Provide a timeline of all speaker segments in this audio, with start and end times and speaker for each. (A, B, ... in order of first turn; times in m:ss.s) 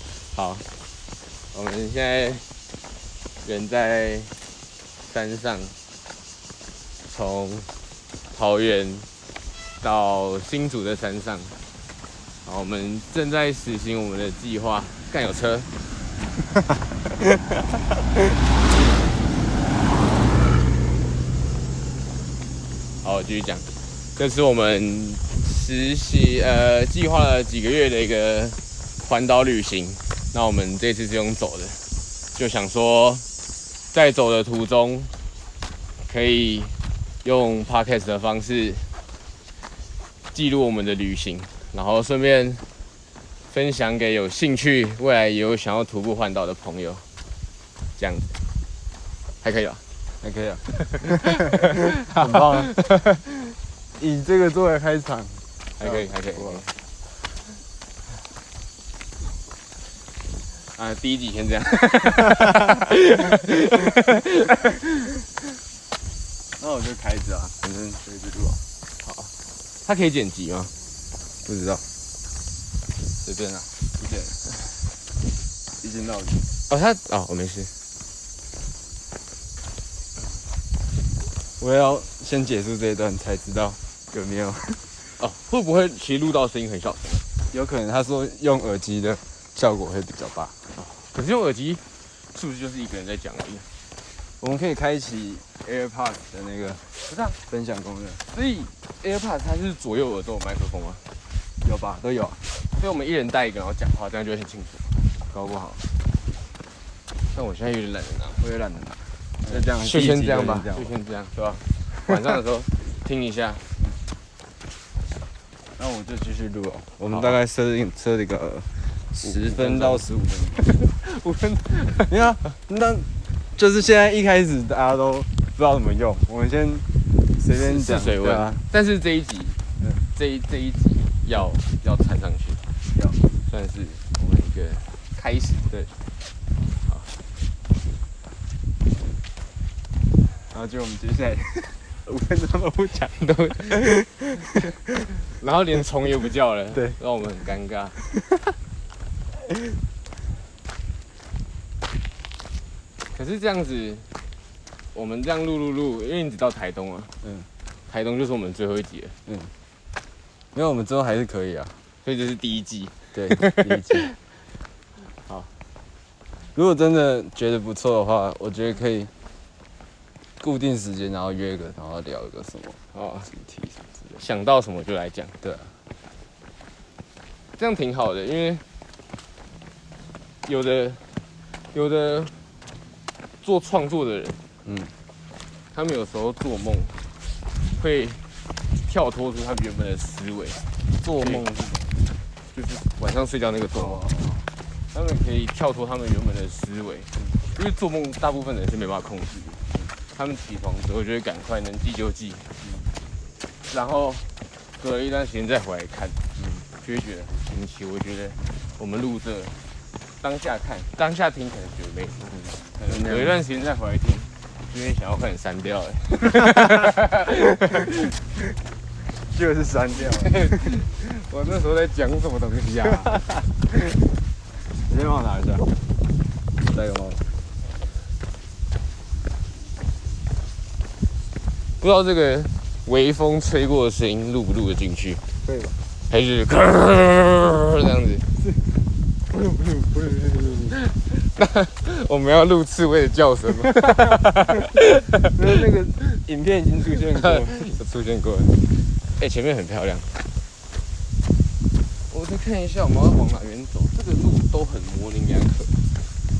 0:00.3-0:00.7 A
0:01.5-0:02.5 A
0:03.4-0:04.3 A
0:05.1-0:05.8 A
0:07.0-0:07.7 A
0:08.3-0:09.1 A
0:09.8-0:11.5 A
0:12.4-0:15.7 A
0:23.0-0:33.2 A
0:33.9-0:35.1 A
0:36.0-0:38.9 A
0:40.3-0:42.6 A
0:43.5-0:47.0 A
0:48.0-0:48.4 A
0:49.4-0:49.8 A
0:50.2-0:52.8 B
0:52.2-0:53.2 A
0:54.0-0:56.6 B
0:55.8-0:56.7 A
1:00.7-1:05.1 A
1:06.6-1:08.6 B
1:09.0-1:09.3 A
1:09.8-1:10.7 A
1:11.4-1:11.8 B
1:13.2-1:14.4 B
1:15.8-1:16.4 B
1:16.7-1:17.7 A
1:21.6-1:24.8 B
1:25.2-1:27.2 A
1:27.5-1:30.6 B
1:30.8-1:33.7 A
1:34.4-1:36.8 B
1:37.0-1:37.4 A
1:37.5-1:38.2 B
1:38.3-1:41.0 A
1:41.6-1:42.4 B
1:42.7-1:45.8 A
1:47.3-1:48.4 A
1:48.4-1:50.9 B
1:49.5-1:53.6 A
1:55.8-2:00.7 B
1:57.1-1:57.4 A
1:59.2-2:00.0 A
2:00.6-2:02.3 A
2:02.1-2:08.6 B
2:07.5-2:12.6 A
2:13.4-2:15.9 A
2:16.8-2:17.1 A
2:20.5-2:24.9 B
2:23.1-2:24.0 A
2:25.3-2:28.0 A
2:33.1-2:34.1 A
2:34.9-2:37.1 A
2:37.2-2:37.5 B
2:37.9-2:39.2 A
2:39.2-2:39.5 B
2:40.5-2:41.8 B
2:42.0-2:44.1 A
2:43.1-2:44.1 B
2:45.2-2:45.5 A
2:46.5-2:49.1 B
2:50.4-2:53.8 B
2:52.9-2:53.3 A
2:54.1-2:55.4 A
2:55.4-2:55.7 B
2:57.6-2:58.6 A
3:00.4-3:01.2 A
3:01.7-3:02.4 A
3:03.4-3:04.4 A
3:04.6-3:04.9 B
3:05.7-3:07.1 A
3:07.7-3:08.2 A
3:08.8-3:10.6 A
3:11.0-3:12.0 B
3:12.5-3:14.0 A
3:13.7-3:14.5 B
3:14.9-3:22.5 A
3:22.6-3:22.9 B
3:23.7-3:29.6 A
3:26.4-3:26.6 B
3:30.2-3:38.1 A
3:32.6-3:33.4 B
3:39.3-3:40.7 B
3:40.2-3:43.2 A
3:44.9-3:45.7 B
3:46.6-3:47.2 B
3:51.8-3:55.2 A
3:55.4-3:55.7 B
3:56.1-3:58.3 A
3:58.4-3:58.8 B
3:59.3-4:00.8 B
4:00.8-4:05.3 A
4:05.3-4:07.7 B
4:07.1-4:10.2 A
4:12.1-4:15.8 A